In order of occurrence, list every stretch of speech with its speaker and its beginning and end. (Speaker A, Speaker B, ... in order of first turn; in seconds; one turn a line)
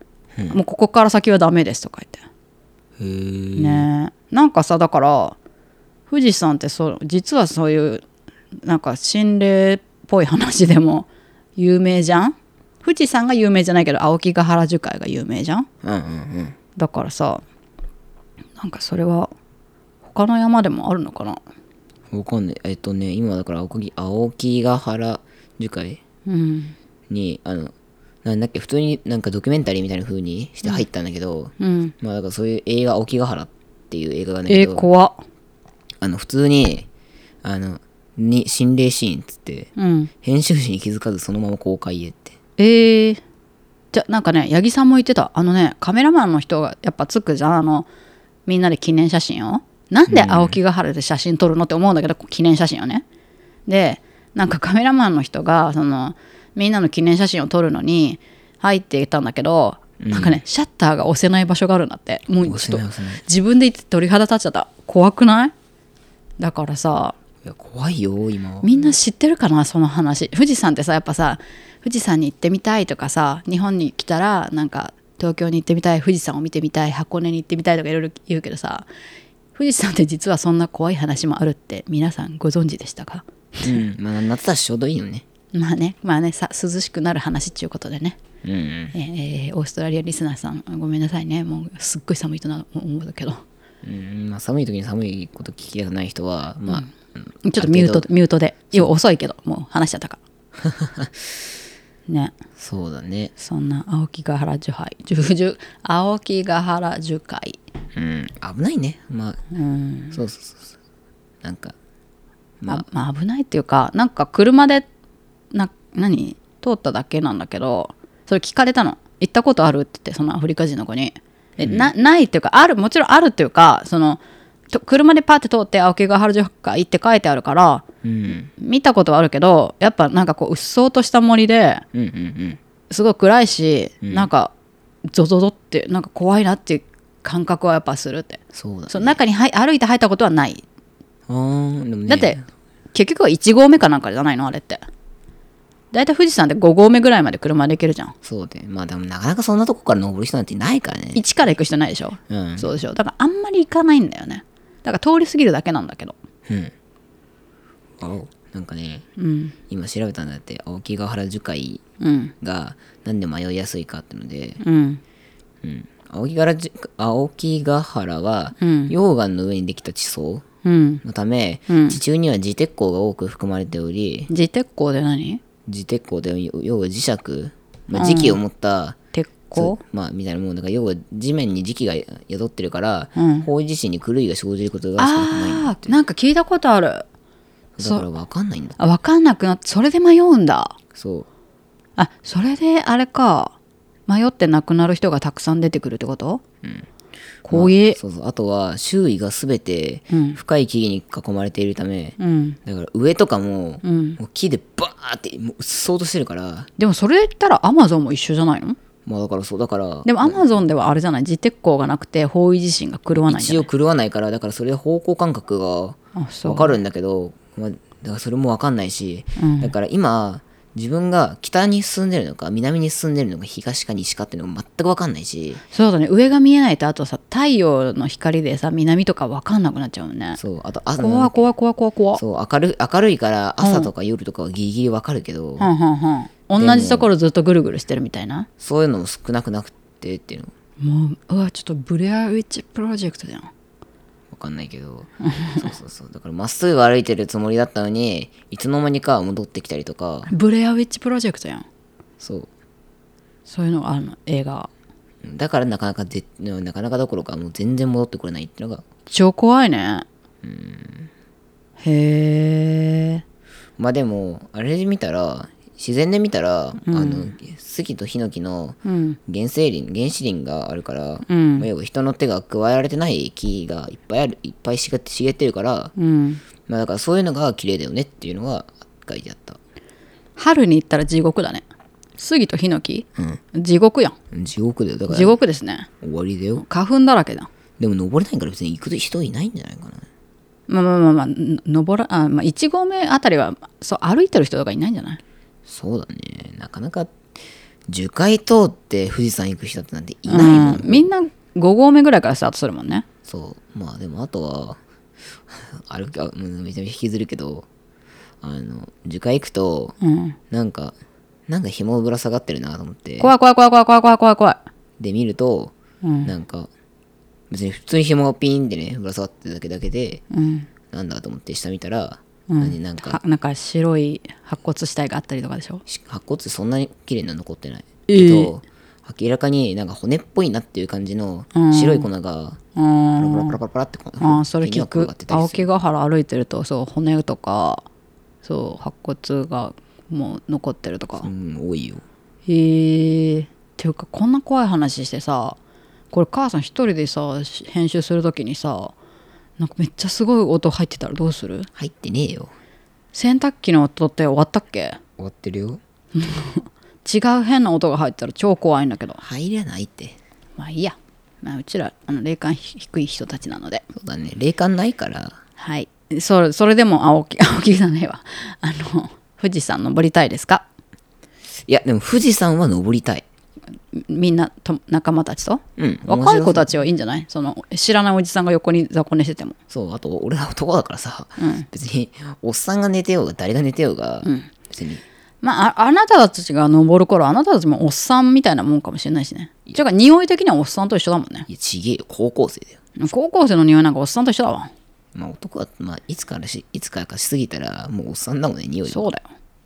Speaker A: 0.4-0.6
Speaker B: 0.5-2.2
Speaker A: 3.0-3.9
Speaker B: 3.6-5.4
Speaker B: 6.1-8.1
Speaker B: 8.6-15.7
Speaker A: 15.8-16.6
Speaker B: 16.8-17.4
Speaker B: 18.6-19.3
Speaker B: 20.1-21.4
Speaker A: 22.1-26.0
Speaker B: 26.3-26.8
Speaker A: 27.1-27.7
Speaker A: 28.2-34.9
Speaker B: 31.6-31.9
Speaker B: 34.5-35.2
Speaker A: 36.0-36.9
Speaker A: 37.4-39.7
Speaker B: 39.8-40.1
Speaker A: 40.2-42.4
Speaker B: 42.6-43.2
Speaker B: 43.9-47.9
Speaker B: 48.5-53.0
Speaker A: 50.1-50.6
Speaker B: 53.7-65.5
Speaker A: 60.0-60.4
Speaker A: 62.4-63.2
Speaker B: 66.4-67.2
Speaker A: 67.4-68.9
Speaker B: 68.6-78.9
Speaker B: 79.5-83.8
Speaker A: 83.6-85.2
Speaker B: 85.5-88.2
Speaker A: 88.4-89.0
Speaker B: 88.9-93.4
Speaker A: 93.8-98.1
Speaker B: 97.5-100.2
Speaker A: 100.6-101.4
Speaker B: 102.1-102.3
Speaker A: 102.6-103.3
Speaker B: 103.4-107.6
Speaker A: 108.0-109.4
Speaker B: 109.5-110.2
Speaker A: 110.1-110.7
Speaker A: 111.4-111.8
Speaker A: 112.6-112.8
Speaker B: 112.7-114.9
Speaker B: 115.5-124.2
Speaker A: 121.6-121.9
Speaker B: 124.7-127.8
Speaker A: 128.0-128.5
Speaker B: 128.6-131.8
Speaker A: 131.9-132.6
Speaker B: 132.9-134.5
Speaker A: 134.0-134.3
Speaker B: 135.1-140.6
Speaker A: 138.5-139.2
Speaker A: 141.3-142.4
Speaker B: 142.1-142.4
Speaker B: 142.9-144.9
Speaker B: 145.9-148.1
Speaker A: 148.2-151.5
Speaker B: 151.2-156.2
Speaker A: 152.3-152.7
Speaker A: 156.5-156.7
Speaker A: 158.0-159.1
Speaker B: 159.2-159.6
Speaker A: 159.7-161.8
Speaker B: 162.0-162.3
Speaker A: 162.4-164.6
Speaker B: 164.6-165.0
Speaker A: 165.6-170.4
Speaker B: 168.6-168.9
Speaker B: 170.6-171.0
Speaker A: 171.0-174.3
Speaker B: 171.7-172.0
Speaker B: 174.3-175.4
Speaker A: 175.7-179.0
Speaker B: 177.9-178.4
Speaker B: 179.1-179.8
Speaker A: 179.5-186.0
Speaker B: 183.2-183.5
Speaker B: 185.0-187.1
Speaker A: 187.8-188.8
Speaker B: 187.8-188.1
Speaker B: 188.8-190.8
Speaker A: 190.9-191.3
Speaker B: 192.0-193.6
Speaker B: 194.1-196.4
Speaker A: 196.6-196.9
Speaker B: 197.4-198.0
Speaker A: 197.5-206.7
Speaker B: 200.1-200.4
Speaker B: 202.2-202.6
Speaker B: 203.8-204.2
Speaker B: 206.8-208.8
Speaker A: 209.1-210.5
Speaker B: 210.1-213.7
Speaker A: 213.1-225.6
Speaker B: 216.2-216.8
Speaker B: 219.4-219.7
Speaker B: 225.7-230.4
Speaker A: 230.4-231.4
Speaker B: 231.0-232.2
Speaker A: 232.2-235.7
Speaker B: 233.6-233.9
Speaker B: 235.6-238.5
Speaker A: 236.6-237.1
Speaker A: 238.6-240.5
Speaker B: 240.8-243.5
Speaker A: 244.3-250.3
Speaker B: 245.2-245.7
Speaker B: 250.3-251.7
Speaker A: 252.2-252.5
Speaker B: 253.5-254.7
Speaker A: 255.2-258.8
Speaker B: 259.1-260.1
Speaker A: 260.4-261.1
Speaker B: 261.8-263.2
Speaker A: 263.8-275.9
Speaker B: 266.8-267.3
Speaker B: 268.9-269.2
Speaker B: 271.3-271.7
Speaker B: 276.0-276.4
Speaker A: 276.7-279.6
Speaker B: 280.4-281.6
Speaker B: 282.2-284.2
Speaker A: 284.3-285.4
Speaker B: 285.1-285.9
Speaker A: 286.0-286.6
Speaker B: 286.6-287.5
Speaker A: 287.8-290.1
Speaker B: 290.7-295.2
Speaker A: 295.7-297.3
Speaker A: 297.9-301.1
Speaker B: 300.3-303.1
Speaker A: 303.2-304.8
Speaker A: 305.5-307.7
Speaker A: 308.4-310.0
Speaker B: 310.0-310.4
Speaker A: 310.5-311.0
Speaker A: 311.5-313.3
Speaker B: 313.2-314.6
Speaker A: 315.0-315.7
Speaker B: 316.0-316.3
Speaker A: 316.2-316.7
Speaker A: 317.5-320.2
Speaker B: 320.3-320.7
Speaker A: 320.9-323.2
Speaker B: 322.5-325.8
Speaker A: 325.9-332.6
Speaker B: 328.1-328.5
Speaker B: 331.5-332.1
Speaker B: 332.8-333.6
Speaker A: 333.2-335.7
Speaker B: 334.2-337.9
Speaker B: 338.4-341.3
Speaker A: 341.2-342.0
Speaker B: 342.5-345.6
Speaker B: 346.1-348.9
Speaker B: 349.6-351.7
Speaker A: 351.8-352.5
Speaker B: 353.1-355.0
Speaker A: 355.2-355.8
Speaker B: 356.1-359.2
Speaker A: 359.2-360.2
Speaker B: 360.6-363.9
Speaker A: 363.9-365.4
Speaker B: 365.6-370.7
Speaker A: 371.6-373.2
Speaker B: 373.9-379.6
Speaker A: 375.8-376.7
Speaker A: 379.7-385.0
Speaker B: 381.4-381.7
Speaker B: 384.2-384.5
Speaker B: 385.4-391.5
Speaker A: 391.5-392.8
Speaker B: 393.0-394.7
Speaker A: 395.1-399.1
Speaker B: 398.9-399.3